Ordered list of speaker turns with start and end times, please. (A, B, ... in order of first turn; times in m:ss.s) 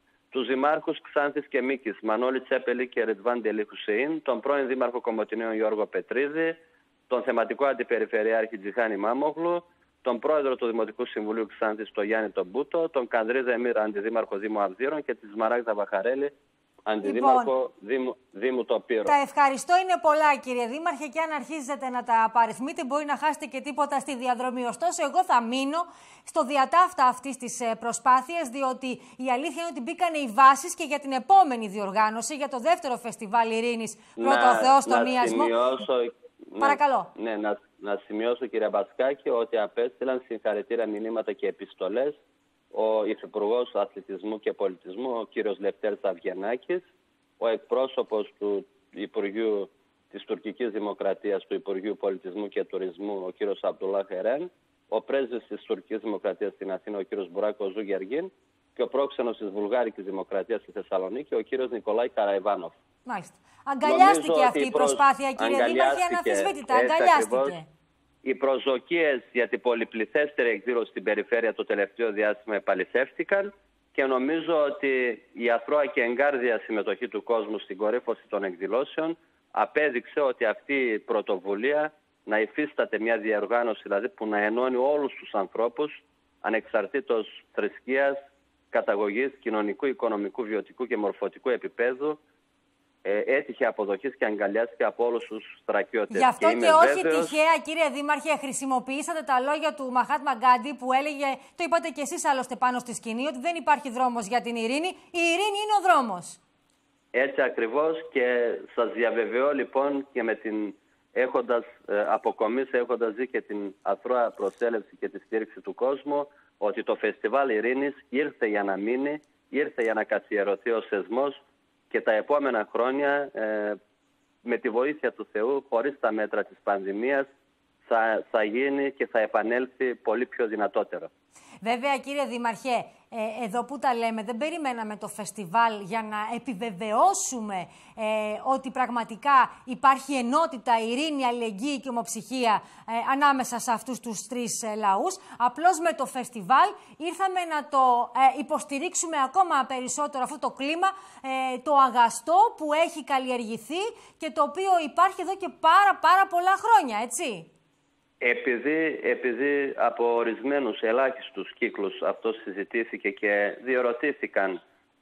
0:00.3-0:16.3 A
0:16.9-0:19.2 A
0:17.0-0:17.5 B
0:19.1-0:35.6 B
0:34.2-0:42.2 A
0:36.6-0:37.1 B
0:42.7-0:46.8 A
0:47.4-1:02.8 A
1:03.1-1:07.6 B
1:03.8-1:07.6 A
1:08.2-1:28.2 A
1:28.7-1:32.2 A
1:33.0-1:37.4 A
1:36.1-1:46.4 B
1:47.1-2:01.4 A
2:01.9-2:03.8 A
2:04.4-2:07.3 A
2:07.8-2:11.1 A
2:11.6-2:37.5 B
2:38.2-2:44.6 A